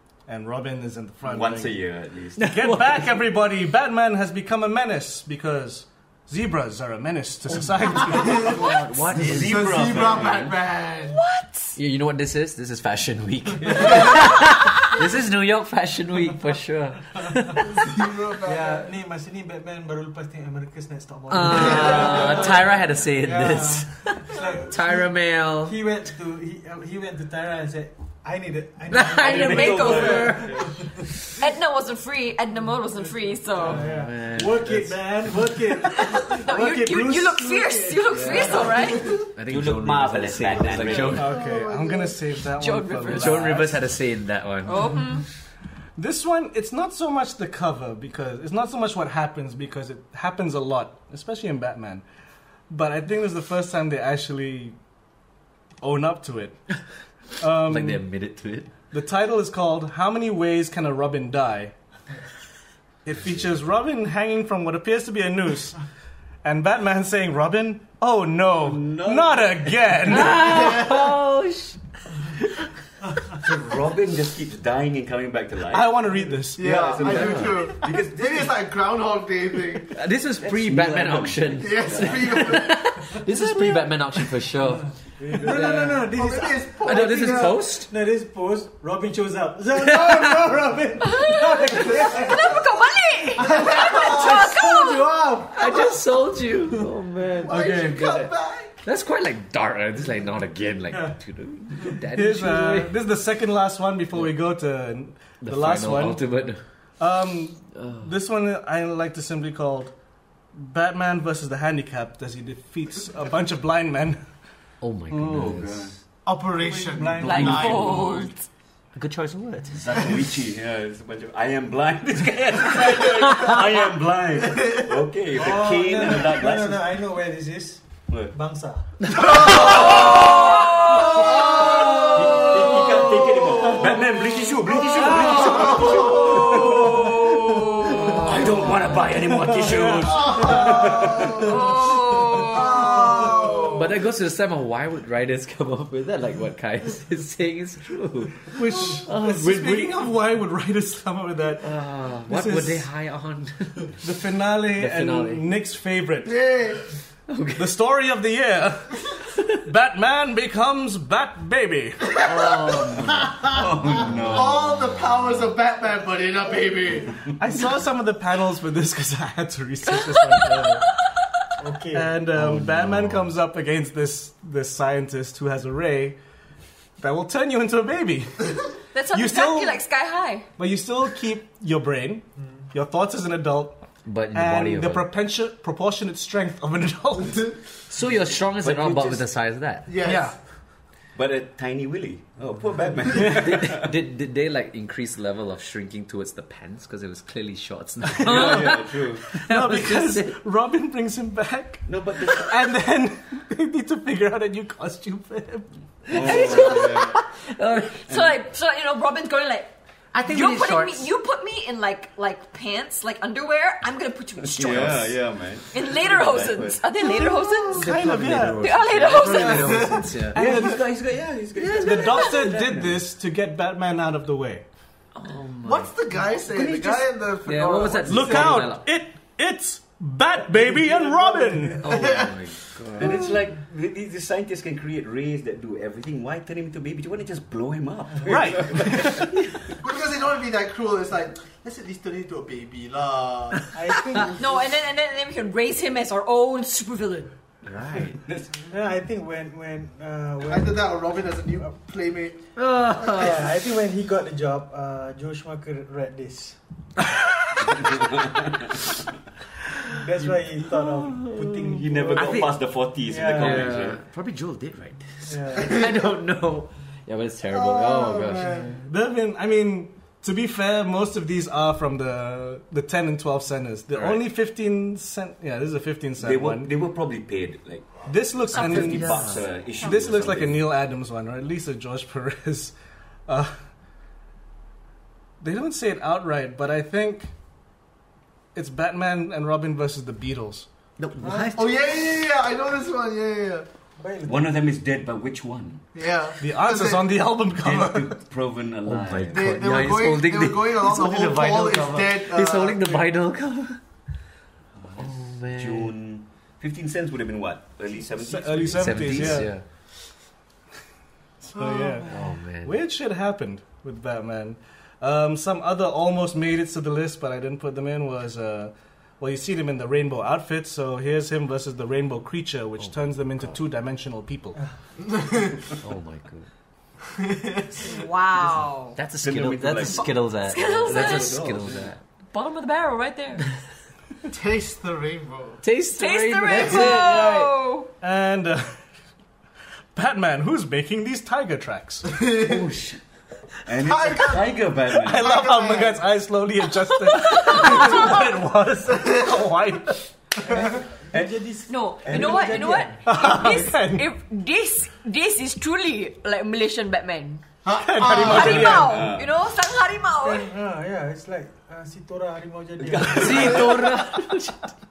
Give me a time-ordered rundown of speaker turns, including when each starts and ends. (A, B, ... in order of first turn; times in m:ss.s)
0:00.3-0:01.8 A
0:01.3-0:02.5 B
0:02.4-0:03.0 C
0:02.4-0:08.6 A
0:07.5-0:09.8 C
0:08.1-0:11.2 D
0:08.6-0:10.6 B
0:11.1-0:11.8 E
0:11.8-0:17.7 C
0:13.8-0:14.3 D
0:17.6-0:18.9 D
0:18.4-0:22.7 F
0:21.3-0:25.8 C
0:23.2-0:25.1 F
0:25.6-0:30.7 F
0:28.9-0:30.7 C
0:29.2-0:31.0 B
0:29.2-0:30.4 E
0:31.3-0:33.8 E
0:33.6-0:39.0 F
0:33.7-0:35.0 C
0:36.0-0:39.2 E
0:38.1-0:41.3 C
0:39.0-0:39.3 D
0:39.5-0:41.3 B
0:41.0-0:43.8 A
0:41.0-0:42.2 D
0:42.6-0:43.5 E
0:43.0-0:45.0 C
0:44.6-0:45.3 E
0:46.0-0:52.0 A
0:52.7-0:54.8 A
0:55.8-0:56.6 A
0:57.4-0:58.0 A
0:57.6-0:58.7 C
0:58.9-1:01.7 A
1:03.0-1:05.8 A
1:06.4-1:10.8 A
1:08.6-1:10.4 B
1:10.1-1:12.3 C
1:10.4-1:11.1 D
1:13.3-1:16.0 B
1:15.7-1:16.8 A
1:16.6-1:18.5 B
1:16.6-1:19.9 D
1:17.1-1:17.6 C
1:19.9-1:26.1 C
1:20.3-1:22.6 B
1:21.6-1:22.9 D
1:25.2-1:26.6 F
1:25.7-1:27.7 D
1:26.8-1:27.9 C
1:27.9-1:32.6 F
1:29.8-1:30.4 C
1:31.0-1:35.1 E
1:33.4-1:36.0 F
1:33.5-1:34.2 D
1:35.5-1:38.3 C
1:37.4-1:38.8 D
1:37.5-1:38.2 A
1:38.8-1:43.0 C
1:42.1-1:46.2 A
1:45.4-1:46.6 C
1:47.0-1:49.9 A
1:47.8-1:48.1 C
1:50.5-1:54.2 A
1:54.8-1:55.8 C
1:55.1-1:56.0 B
1:56.2-1:58.3 D
1:56.6-1:58.0 F
1:57.2-1:58.2 B
1:57.2-1:58.4 E
1:58.9-2:00.1 C
1:59.7-2:07.0 B
2:03.3-2:03.6 C
2:04.4-2:05.1 D
2:05.3-2:08.9 F
2:09.1-2:12.7 D
2:09.4-2:21.7 B
2:15.0-2:16.4 D
2:15.0-2:18.9 C
2:20.1-2:21.6 D
2:21.3-2:22.9 E
2:22.2-2:24.1 D
2:23.7-2:30.0 C
2:28.5-2:31.7 A
2:31.6-2:33.9 C
2:32.3-2:32.8 A
2:34.0-2:36.4 A
2:34.8-2:35.4 C
2:36.2-2:36.8 D
2:37.3-2:37.7 C
2:37.6-2:42.1 A
2:39.2-2:39.6 C
2:42.2-2:44.2 C
2:42.2-2:43.5 D
2:43.4-2:44.8 B
2:44.1-2:47.3 D
2:47.4-2:50.9 A
2:51.6-2:52.1 F
2:51.9-2:56.2 A
2:52.3-2:53.3 C
2:57.0-2:58.6 A
2:58.9-3:00.5 E
2:59.1-2:59.8 A
3:00.6-3:07.6 A
3:04.1-3:05.1 C
3:07.9-3:10.3 C
3:08.6-3:09.3 B
3:09.9-3:10.3 D
3:10.1-3:10.3 A
3:11.2-3:13.9 B
3:13.1-3:20.4 C
3:13.1-3:13.6 A
3:18.2-3:19.3 B
3:18.3-3:18.8 A
3:19.3-3:26.3 A
3:21.9-3:22.6 B
3:26.1-3:28.2 C
3:26.1-3:27.2 B
3:26.3-3:27.0 E
3:28.1-3:35.2 E
3:28.1-3:28.4 B
3:30.1-3:31.1 C
3:34.4-3:36.8 B
3:34.6-3:35.0 C
3:35.7-3:38.0 E
3:37.2-3:40.8 A
3:37.8-3:40.4 C
3:38.6-3:39.9 E
3:39.2-3:39.5 B
3:39.3-3:40.3 D
3:40.3-3:43.0 B
3:41.6-3:42.6 C
3:41.7-3:44.6 A
3:45.2-3:45.9 C
3:45.6-3:48.6 D
3:46.4-3:48.9 C
3:48.0-3:51.9 A
3:51.8-3:53.3 C
3:51.8-3:52.7 D
3:52.9-3:59.3 B
3:58.3-3:59.3 A
3:59.8-4:03.7 D
4:03.7-4:04.6 F
4:04.4-4:07.3 E
4:07.6-4:08.6 B
4:07.8-4:08.2 C
4:08.7-4:11.0 F
4:10.4-4:12.4 D
4:12.6-4:13.4 C
4:13.0-4:16.6 F
4:17.6-4:19.0 B
4:19.9-4:22.5 F
4:21.1-4:22.6 C
4:21.7-4:24.0 B
4:23.0-4:23.8 F
4:23.2-4:28.7 C
4:25.2-4:25.8 F
4:25.6-4:26.2 D
4:27.5-4:28.6 D
4:28.3-4:28.7 F
4:28.7-4:36.7 A
4:33.9-4:34.2 C
4:36.2-4:40.6 B
4:38.1-4:42.7 A
4:38.7-4:39.4 C
4:43.3-4:43.7 A
4:45.4-4:47.3 A
4:48.6-4:50.7 A
4:51.0-4:51.8 C
4:51.2-4:51.5 F
4:51.5-4:53.6 D
4:54.0-4:54.6 F
4:54.2-4:55.9 B
4:55.9-4:57.1 D
4:56.4-4:58.2 A
4:57.5-4:59.6 B
4:58.8-5:03.8 C
4:59.3-5:03.1 D
5:04.8-5:09.5 B
5:05.0-5:05.9 C
5:08.2-5:09.5 A
5:08.8-5:09.6 C
5:11.5-5:24.6 A
5:11.6-5:12.1 D
5:12.1-5:12.7 C
5:25.1-5:25.6 D
5:25.8-5:26.5 C
5:27.2-5:27.9 D
5:27.8-5:29.0 E
5:29.0-5:32.0 C
5:29.2-5:31.9 B
5:29.8-5:31.5 E
5:32.3-5:33.6 E
5:34.3-5:35.6 D
5:35.6-5:37.4 C
5:35.9-5:37.9 E
5:36.6-5:36.9 D
5:38.0-5:38.8 A
5:39.9-5:42.3 A
5:42.0-5:42.8 D
5:42.4-5:43.0 C
5:43.6-5:45.3 B
5:43.8-5:46.0 D
5:44.9-5:50.1 A
5:47.1-5:48.2 E
5:48.9-5:49.3 D
5:50.4-5:53.0 F
5:51.7-5:57.4 E
5:52.0-5:52.8 B
5:53.1-5:54.1 A
5:57.6-5:58.8 D
5:57.8-5:59.1 A
5:58.0-6:00.5 E
5:58.3-5:59.3 B
6:00.2-6:03.8 F
6:02.8-6:03.9 B
6:03.1-6:04.7 C